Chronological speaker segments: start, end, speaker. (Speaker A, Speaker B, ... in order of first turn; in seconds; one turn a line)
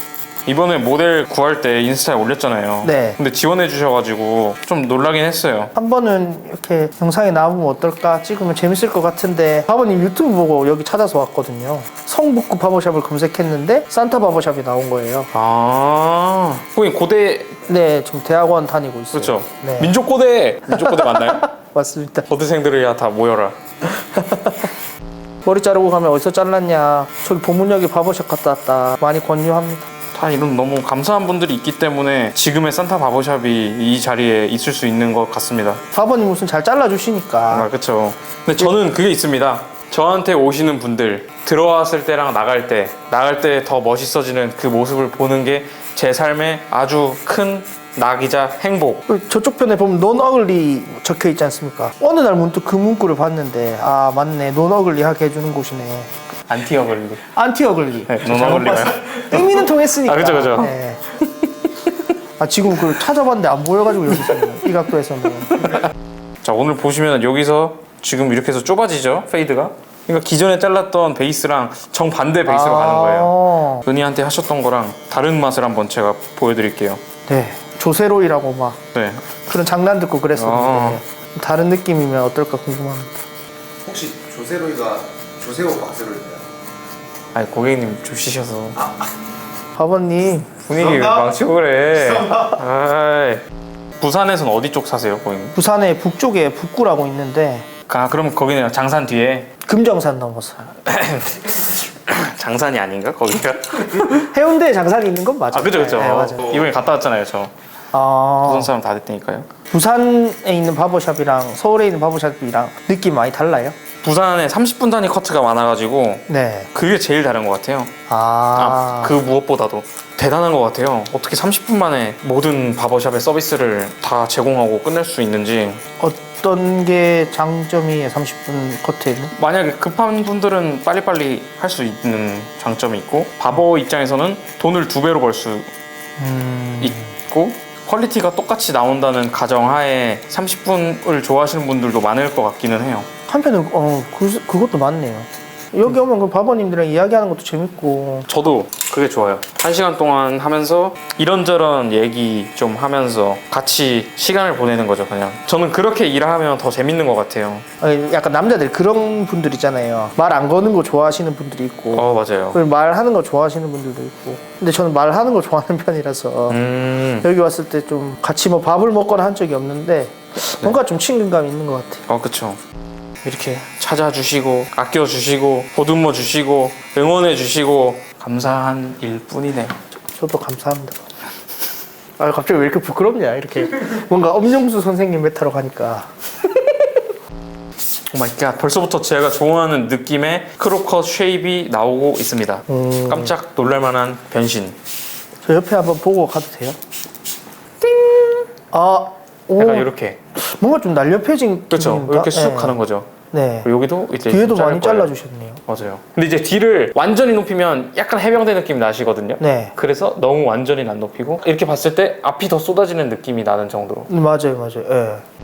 Speaker A: 0.5-5.7
Speaker B: 2.8-3.2
Speaker B: 5.7-15.3
Speaker A: 15.3-17.6
Speaker B: 17.7-19.9
Speaker A: 19.1-21.4
Speaker B: 20.7-22.3
Speaker A: 22.3-23.5
Speaker B: 23.8-24.7
Speaker B: 25.4-29.9
Speaker A: 30.1-35.8
Speaker B: 35.9-37.7
Speaker A: 37.5-49.0
Speaker B: 49.1-56.1
Speaker A: 56.5-57.2
Speaker B: 57.3-61.0
Speaker A: 58.1-60.7
Speaker B: 62.4-65.7
Speaker A: 66.4-73.3
Speaker B: 72.5-73.8
Speaker A: 73.8-77.0
Speaker B: 77.3-78.8
Speaker A: 78.9-79.3
Speaker B: 79.4-83.1
Speaker A: 80.3-81.0
Speaker C: 83.8-86.4
Speaker A: 87.3-88.8
Speaker B: 89.8-90.5
Speaker A: 90.6-93.4
Speaker A: 94.0-95.6
Speaker B: 95.5-97.7
Speaker A: 97.9-99.5
Speaker B: 99.6-100.6
Speaker A: 100.8-104.3
Speaker B: 104.2-106.6
Speaker A: 105.5-107.5
Speaker B: 107.9-108.7
Speaker A: 108.4-109.5
Speaker B: 109.7-113.8
Speaker A: 114.0-117.9
Speaker B: 116.3-116.7
Speaker B: 118.1-119.2
Speaker A: 118.6-125.8
Speaker B: 126.0-129.3
Speaker A: 129.3-135.7
Speaker B: 136.2-137.1
Speaker A: 136.8-143.1
Speaker B: 143.3-148.3
Speaker A: 148.3-157.6
Speaker B: 157.8-166.6
Speaker A: 161.9-162.6
Speaker A: 166.5-167.3
Speaker B: 167.2-172.0
Speaker A: 172.1-172.6
Speaker A: 173.2-179.8
Speaker B: 180.1-181.0
Speaker B: 182.2-186.1
Speaker A: 188.1-194.8
Speaker B: 192.7-193.3
Speaker B: 195.4-196.8
Speaker A: 197.8-198.4
Speaker B: 198.7-202.8
Speaker A: 199.6-200.2
Speaker A: 201.7-203.1
Speaker B: 203.3-203.7
Speaker A: 203.6-205.1
Speaker B: 204.3-205.6
Speaker A: 205.7-214.1
Speaker B: 209.4-209.7
Speaker B: 214.1-215.2